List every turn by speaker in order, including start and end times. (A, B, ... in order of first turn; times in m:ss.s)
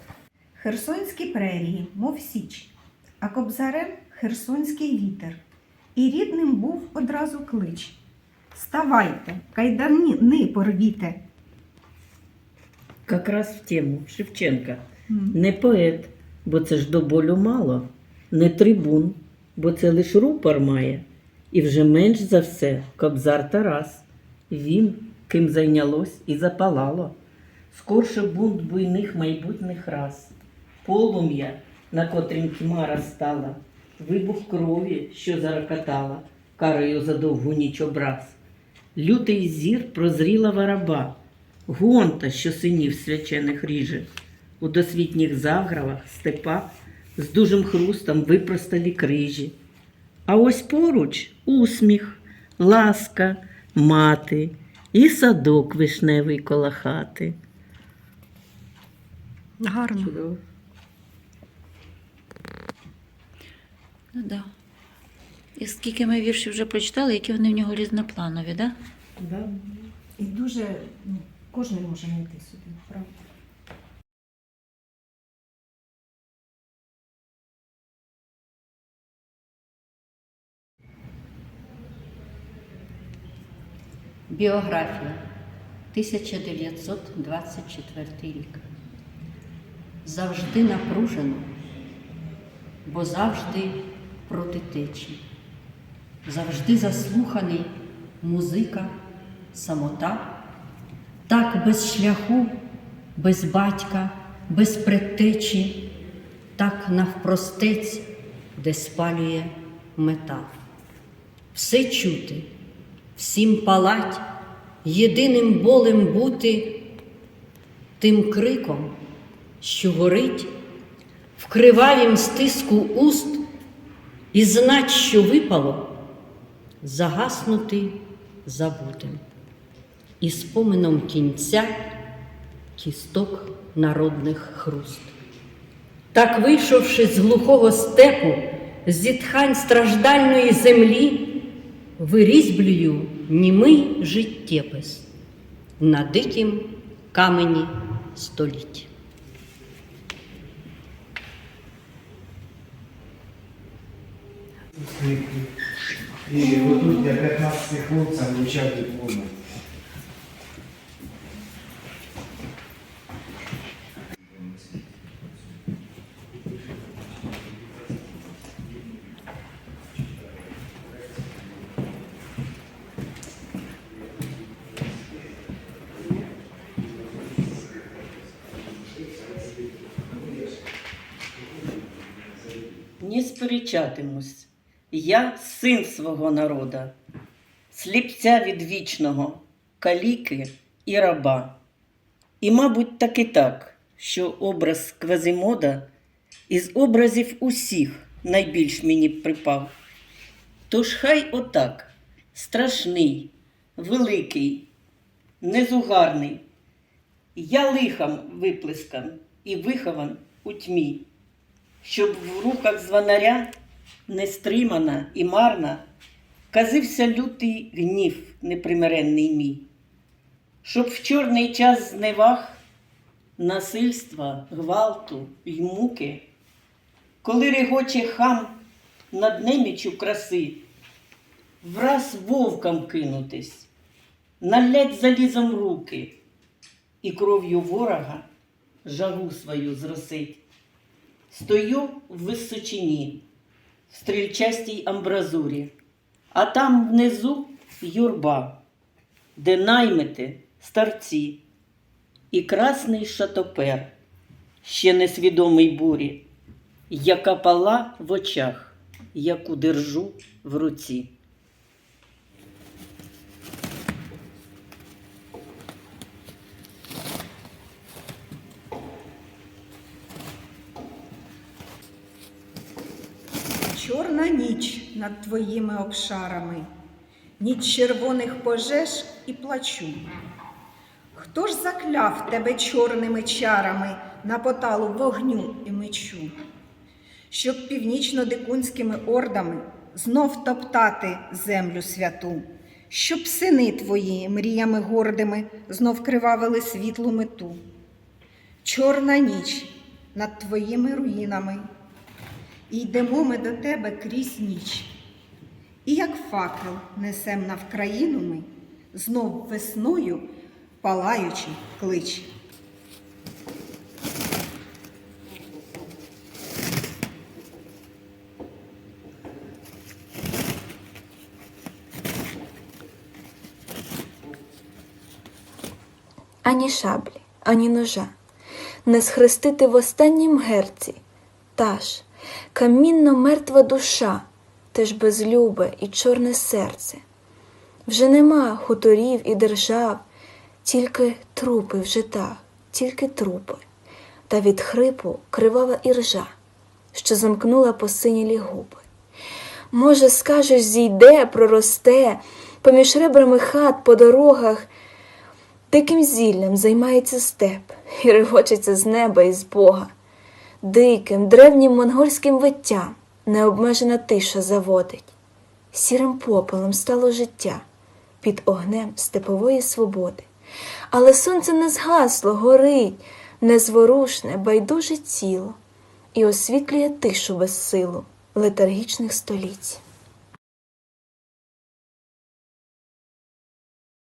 0:00.6-0:05.4 A
0:06.0-0:08.0 A
0:08.5-0:11.2 A
0:13.1-0:27.2 B
0:15.1-0:15.4 A
0:27.7-0:38.4 B
0:39.0-0:41.2 B
0:41.7-0:44.1 B
0:44.6-0:49.6 B
0:50.3-0:57.4 B
0:59.6-1:00.2 C
1:00.0-1:00.4 B
1:04.2-1:04.5 D
1:05.6-1:08.8 D
1:09.2-1:09.8 B
1:10.2-1:13.1 A
1:24.3-1:25.2 C
1:25.9-1:28.6 C
1:30.0-1:31.5 C
1:32.8-1:35.2 C
1:36.2-1:38.9 C
1:39.5-1:40.3 C
1:41.3-1:42.5 C
1:43.2-1:45.9 C
1:46.6-1:48.0 C
1:48.6-1:50.5 C
1:51.5-1:52.5 C
1:53.2-1:54.2 C
1:54.8-1:56.8 C
1:58.0-1:59.0 C
1:59.6-2:00.5 C
2:01.4-2:03.4 C
2:04.3-2:05.9 C
2:06.8-2:09.2 C
2:10.2-2:11.8 C
2:12.8-2:15.1 C
2:16.1-2:21.4 C
2:22.0-2:25.1 C
2:25.8-2:28.9 C
2:34.8-2:35.5 E
2:36.3-2:39.3 E
3:03.0-3:06.9 B
3:07.7-3:11.6 B
3:12.4-3:15.9 B
3:16.5-3:19.7 B
3:20.7-3:24.7 B
3:25.4-3:26.4 B
3:27.4-3:31.1 B
3:31.8-3:33.5 B
3:34.1-3:35.8 B
3:36.5-3:39.7 B
3:40.6-3:42.6 B
3:43.4-3:46.3 B
3:47.2-3:48.6 B
3:49.1-3:50.6 B
3:51.6-3:53.7 B
3:54.4-3:56.2 B
3:57.0-3:58.3 B
3:58.8-4:00.4 B
4:01.3-4:03.2 B
4:03.9-4:05.7 B
4:06.3-4:08.6 B
4:09.4-4:11.4 B
4:12.3-4:13.9 B
4:14.6-4:16.2 B
4:16.9-4:21.1 B
4:33.7-4:36.7 A
4:37.4-4:40.0 A
4:41.1-4:46.3 A
4:47.3-4:57.6 A
4:58.6-5:01.7 A
5:02.7-5:04.9 A
5:05.8-5:10.3 A
5:10.8-5:12.3 A
5:26.4-5:28.1 F
5:28.9-5:31.0 F
5:31.6-5:37.0 F
5:37.9-5:40.0 F
5:40.6-5:43.6 F
5:44.3-5:46.3 F
5:46.9-5:48.8 F
5:49.7-5:54.7 F
5:55.7-5:59.9 F
6:00.6-6:05.1 F
6:05.7-6:07.6 F
6:08.2-6:10.3 F
6:10.9-6:15.6 F
6:16.1-6:19.8 F